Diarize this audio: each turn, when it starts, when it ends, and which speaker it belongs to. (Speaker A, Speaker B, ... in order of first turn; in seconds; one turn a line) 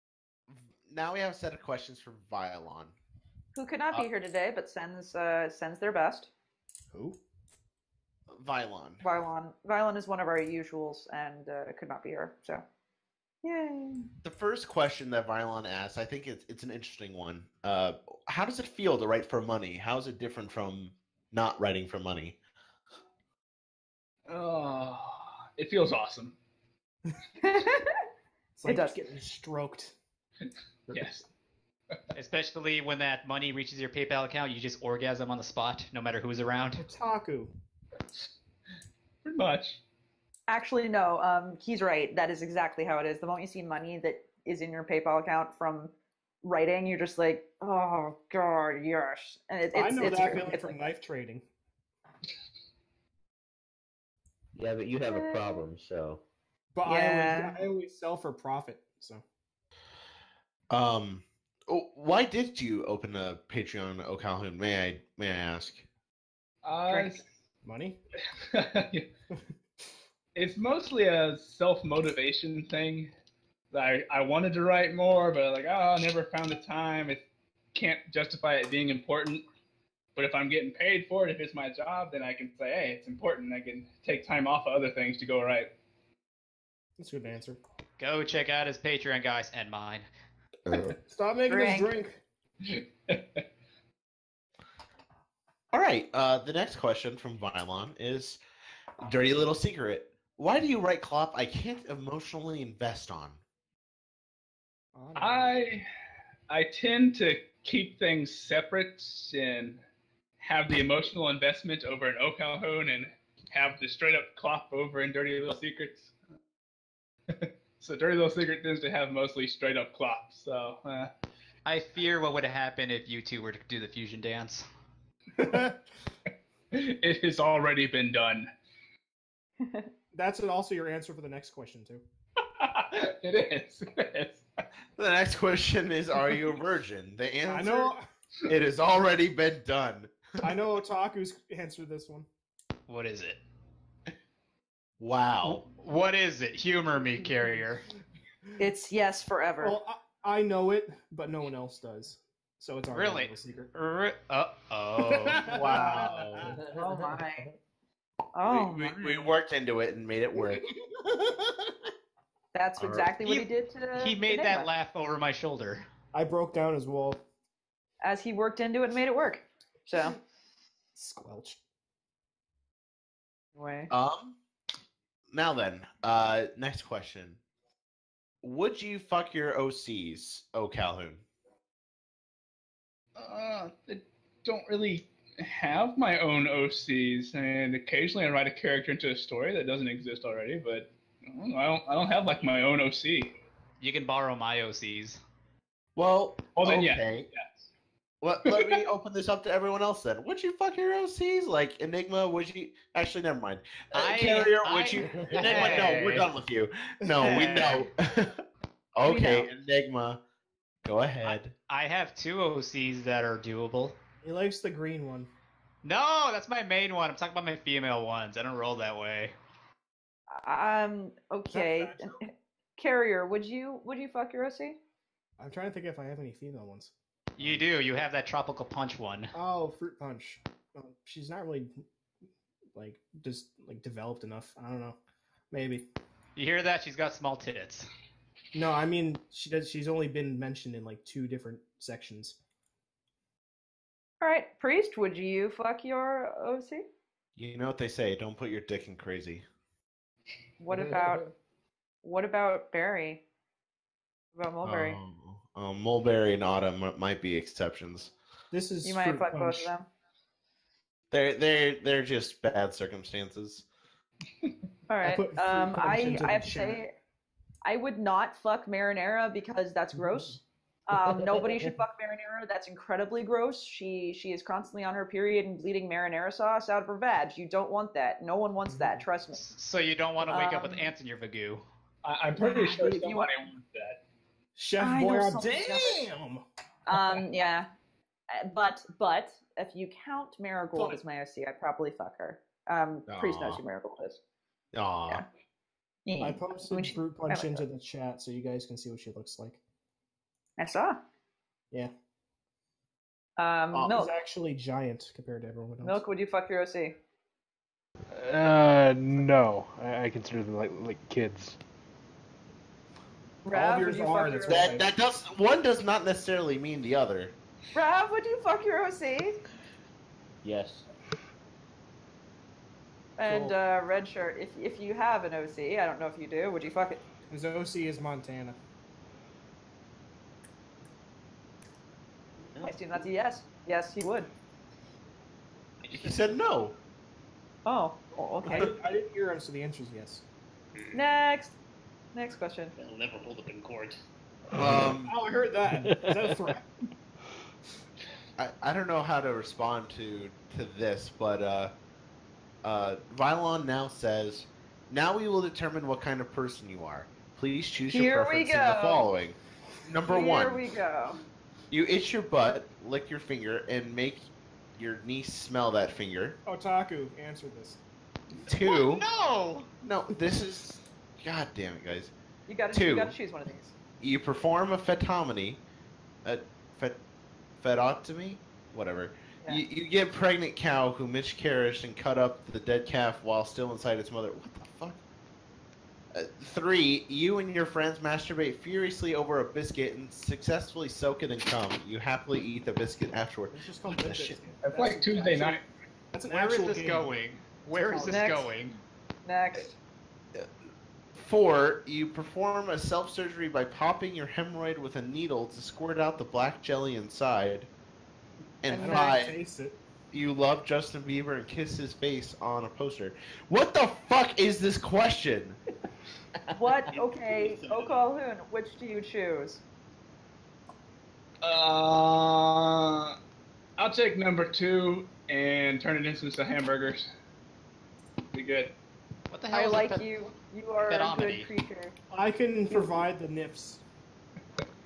Speaker A: 0.5-3.0
Speaker B: 3.5-6.3
Speaker C: 6.9-7.2
Speaker A: 8.3-9.0
Speaker B: 9.0-12.6
Speaker B: 13.4-14.1
Speaker A: 14.2-22.3
Speaker D: 24.3-26.3
Speaker B: 27.4-27.9
Speaker C: 28.6-29.9
Speaker B: 28.7-29.0
Speaker D: 30.9-31.3
Speaker E: 32.1-36.8
Speaker C: 36.8-37.5
Speaker D: 39.2-39.8
Speaker B: 40.5-50.7
Speaker C: 49.7-51.5
Speaker F: 54.5-56.2
Speaker B: 55.0-55.5
Speaker C: 56.7-59.2
Speaker B: 56.8-57.5
Speaker A: 60.7-65.8
Speaker D: 66.6-67.2
Speaker B: 66.9-67.2
Speaker C: 67.6-68.0
Speaker D: 68.5-69.0
Speaker D: 70.3-73.1
Speaker D: 73.7-77.2
Speaker D: 77.7-79.4
Speaker D: 80.2-85.7
Speaker C: 87.0-87.6
Speaker E: 88.0-90.1
Speaker F: 90.7-91.0
Speaker C: 91.0-92.2
Speaker B: 91.5-91.9
Speaker D: 92.6-93.4
Speaker A: 95.7-98.4
Speaker A: 99.0-103.4
Speaker C: 105.0-105.6
Speaker D: 105.2-105.9
Speaker D: 106.5-109.8
Speaker D: 110.4-116.1
Speaker D: 117.3-121.1
Speaker E: 121.7-124.7
Speaker C: 125.4-125.7
Speaker D: 126.7-128.5
Speaker B: 129.6-129.9
Speaker C: 130.1-132.0
Speaker D: 132.6-134.4
Speaker A: 135.0-137.9
Speaker C: 137.4-138.1
Speaker A: 138.5-140.1
Speaker C: 140.4-142.3
Speaker E: 142.9-143.4
Speaker A: 145.0-145.6
Speaker E: 145.4-147.8
Speaker B: 148.6-149.8
Speaker C: 149.6-153.7
Speaker E: 152.9-156.1
Speaker C: 155.0-156.6
Speaker A: 155.4-156.6
Speaker B: 156.7-157.4
Speaker B: 158.3-159.3
Speaker A: 158.4-160.6
Speaker B: 162.5-164.7
Speaker A: 162.8-163.1
Speaker E: 163.2-165.8
Speaker C: 166.1-167.2
Speaker B: 168.0-170.2
Speaker C: 170.9-171.6
Speaker B: 173.6-173.9
Speaker A: 173.9-174.4
Speaker A: 175.3-177.4
Speaker A: 178.4-181.2
Speaker D: 183.2-193.3
Speaker E: 193.8-195.2
Speaker A: 195.9-197.3
Speaker D: 196.6-197.7
Speaker A: 198.2-208.4
Speaker D: 198.5-198.8
Speaker E: 203.9-206.3
Speaker F: 205.3-205.7
Speaker E: 207.2-207.9
Speaker A: 208.9-210.2
Speaker B: 209.0-209.5
Speaker A: 210.8-211.5
Speaker E: 211.2-213.9
Speaker C: 214.2-215.3
Speaker E: 215.8-219.3
Speaker B: 220.4-224.8
Speaker C: 221.5-222.1
Speaker C: 225.4-226.9
Speaker E: 227.4-229.3
Speaker C: 229.3-231.7
Speaker C: 232.7-235.0
Speaker C: 235.5-235.8
Speaker E: 236.4-237.9
Speaker C: 238.5-242.4
Speaker B: 244.2-246.8
Speaker A: 247.4-249.4
Speaker B: 250.6-251.2
Speaker B: 252.0-253.2
Speaker B: 254.3-255.0
Speaker A: 254.6-258.1
Speaker C: 258.5-259.7
Speaker B: 258.8-259.9
Speaker A: 261.1-263.6
Speaker B: 264.9-266.9
Speaker C: 265.0-266.8
Speaker B: 267.6-279.4
Speaker C: 269.9-270.4
Speaker F: 271.3-271.7
Speaker E: 279.4-281.6
Speaker B: 280.2-280.9
Speaker D: 282.0-284.0
Speaker B: 282.4-283.3
Speaker C: 284.6-286.4
Speaker B: 284.8-286.0
Speaker B: 286.9-287.7
Speaker B: 288.3-294.2
Speaker A: 293.1-293.6
Speaker A: 294.7-295.2
Speaker B: 296.1-297.6
Speaker C: 296.2-299.6
Speaker B: 300.6-301.0
Speaker B: 303.4-304.1
Speaker C: 303.7-306.0
Speaker B: 305.8-306.9
Speaker G: 308.1-311.6
Speaker B: 313.4-314.8
Speaker C: 313.5-314.9
Speaker A: 314.5-317.3
Speaker B: 317.7-319.4
Speaker F: 320.4-320.8
Speaker B: 323.2-327.0
Speaker C: 323.3-323.6
Speaker C: 327.3-328.6
Speaker B: 332.6-334.3
Speaker H: 335.8-336.3
Speaker A: 336.0-336.7
Speaker B: 337.6-338.7
Speaker C: 338.5-340.2
Speaker H: 340.7-341.1
Speaker B: 340.9-341.6
Speaker B: 342.1-342.7
Speaker H: 342.8-344.0
Speaker A: 344.6-345.1
Speaker C: 344.9-346.6
Speaker G: 345.8-346.2
Speaker A: 348.4-351.7
Speaker A: 352.6-360.6
Speaker B: 357.9-359.1
Speaker B: 360.1-361.2
Speaker A: 361.7-366.4
Speaker C: 366.4-367.8
Speaker A: 368.4-369.1
Speaker E: 368.6-369.7
Speaker A: 369.8-372.1
Speaker B: 372.5-373.7
Speaker A: 372.7-373.2
Speaker A: 374.0-375.6
Speaker A: 376.2-377.0
Speaker A: 377.6-385.0
Speaker A: 386.1-394.4
Speaker C: 393.5-395.6
Speaker D: 394.6-395.6
Speaker C: 396.1-397.1
Speaker E: 396.3-398.8
Speaker B: 397.8-398.5
Speaker B: 399.2-399.8
Speaker A: 401.1-407.7
Speaker A: 408.6-409.4
Speaker C: 408.7-409.8
Speaker A: 410.1-415.6
Speaker B: 416.5-419.6
Speaker H: 416.9-418.0
Speaker D: 421.4-423.2
Speaker D: 423.8-427.1
Speaker D: 428.3-428.7
Speaker E: 429.3-430.1
Speaker B: 429.5-431.9
Speaker E: 430.8-431.5
Speaker C: 432.1-433.8
Speaker B: 432.7-433.0